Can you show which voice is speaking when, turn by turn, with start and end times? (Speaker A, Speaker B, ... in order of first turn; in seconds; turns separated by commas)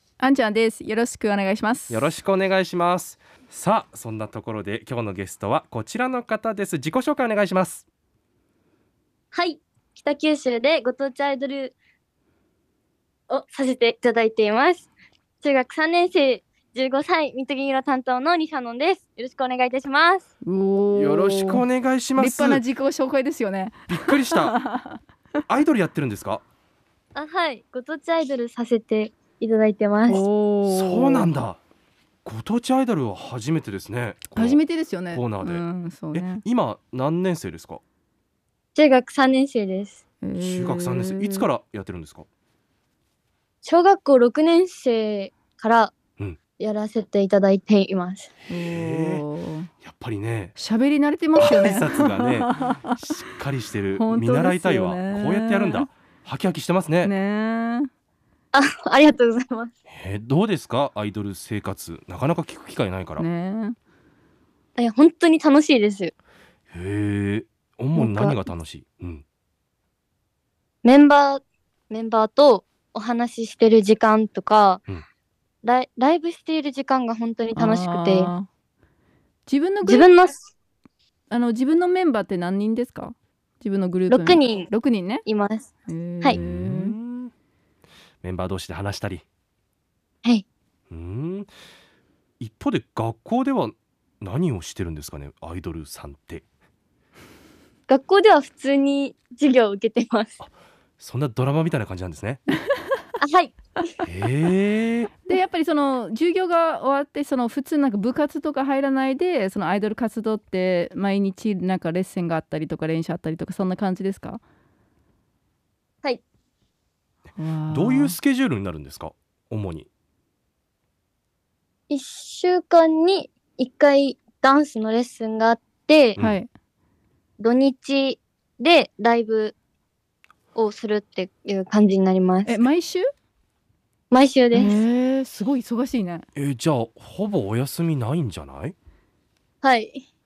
Speaker A: 0.2-2.0, Speaker B: 1.9-7.9, Speaker C: 9.3-11.8, Speaker C: 13.3-14.9, Speaker C: 15.4-20.2, Speaker A: 20.4-25.0, Speaker B: 20.9-22.6, Speaker B: 23.9-24.6, Speaker B: 25.5-26.4, Speaker C: 27.1-30.2, Speaker A: 30.1-31.3, Speaker B: 30.6-31.6, Speaker B: 32.2-34.6, Speaker A: 34.3-36.4, Speaker B: 35.1-37.8, Speaker C: 38.8-40.0, Speaker A: 40.2-41.5, Speaker B: 40.4-42.2, Speaker C: 43.6-45.9, Speaker C: 46.6-48.3, Speaker B: 48.4-49.2, Speaker A: 48.5-49.7, Speaker B: 49.8-50.5, Speaker A: 50.5-53.1, Speaker B: 51.4-57.1, Speaker A: 54.0-55.9, Speaker A: 57.0-57.9, Speaker C: 58.5-59.7, Speaker B: 59.9-63.2, Speaker A: 63.2-63.8, Speaker C: 64.8-66.1, Speaker B: 66.7-69.2, Speaker C: 67.9-68.3, Speaker C: 70.8-74.8, Speaker C: 75.6-78.3, Speaker A: 77.5-78.5, Speaker A: 79.5-80.1, Speaker C: 79.8-80.4, Speaker A: 81.3-85.2, Speaker C: 84.1-84.7, Speaker C: 85.2-85.7, Speaker A: 85.9-87.0, Speaker B: 86.3-87.3, Speaker B: 88.2-89.2, Speaker B: 90.9-91.5, Speaker B: 92.4-96.4, Speaker C: 97.9-100.4, Speaker B: 100.4-102.4, Speaker C: 103.2-103.5, Speaker B: 104.0-105.1, Speaker A: 105.2-114.4, Speaker A: 117.4-118.1, Speaker B: 117.7-119.9, Speaker C: 121.9-126.2, Speaker A: 126.2-126.5, Speaker C: 127.4-129.5, Speaker C: 130.5-132.7, Speaker A: 132.4-133.1, Speaker C: 134.1-134.8, Speaker A: 134.5-136.2, Speaker B: 136.3-138.7, Speaker C: 139.6-140.0